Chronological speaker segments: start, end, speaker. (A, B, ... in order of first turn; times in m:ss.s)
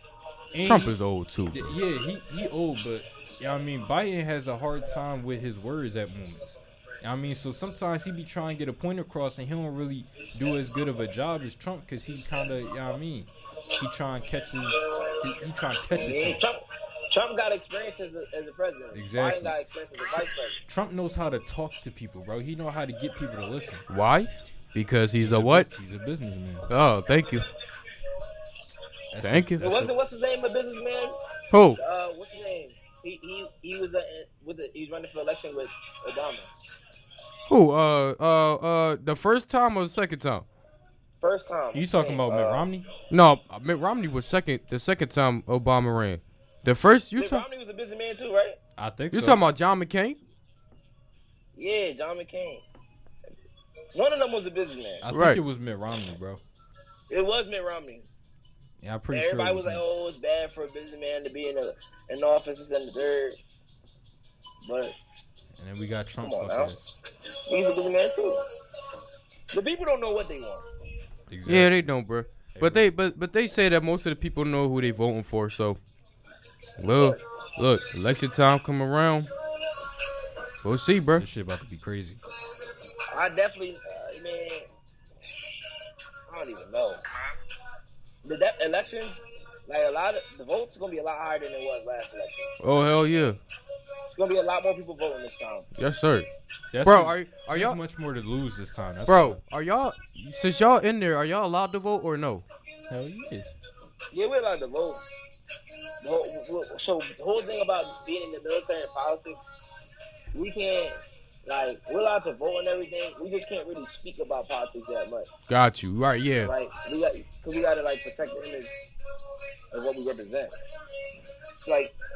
0:00.5-0:00.9 A
0:00.6-0:01.8 B
0:01.5-0:16.4 A
0:15.9-0:20.6 C
0:18.9-0:19.5 A
0:20.7-0:23.8 A
0:23.9-0:25.7 B
0:25.2-0:26.7 A
0:26.7-0:27.4 B
0:29.1-0:29.9 A
0:29.2-0:29.6 B
0:29.6-0:31.2 C
0:31.5-0:31.8 B
0:31.8-0:36.5 C
0:37.5-0:40.4 B
0:41.2-0:42.7 C
0:41.7-0:42.9 A
0:43.1-0:47.4 B
0:47.2-0:48.6 C
0:48.8-0:49.4 A
0:49.1-0:50.2 B
0:51.5-0:52.6 C
0:53.9-0:55.0 C
0:55.0-0:56.4 A
0:55.1-0:55.4 B
0:57.1-0:58.1 C
0:58.8-0:59.8 A
0:59.1-1:03.4 C
1:04.6-1:05.0 C
1:05.6-1:06.9 A
1:06.2-1:06.7 C
1:07.5-1:08.4 C
1:09.5-1:10.6 C
1:11.3-1:11.7 A
1:11.4-1:15.8 B
1:12.5-1:12.9 A
1:16.8-1:19.3 B
1:16.8-1:17.2 C
1:20.6-1:21.2 B
1:21.1-1:22.2 A
1:23.1-1:24.7 C
1:26.3-1:27.0 C
1:28.2-1:32.5 C
1:32.6-1:33.4 B
1:34.1-1:35.7 C
1:35.8-1:36.3 B
1:36.7-1:39.4 A
1:36.8-1:37.8 B
1:39.1-1:42.4 B
1:42.9-1:43.5 A
1:44.1-1:45.0 C
1:46.0-1:49.4 C
1:50.3-1:55.3 C
1:55.5-1:56.5 B
1:56.4-1:58.7 C
1:59.7-2:00.5 C
2:01.6-2:01.9 C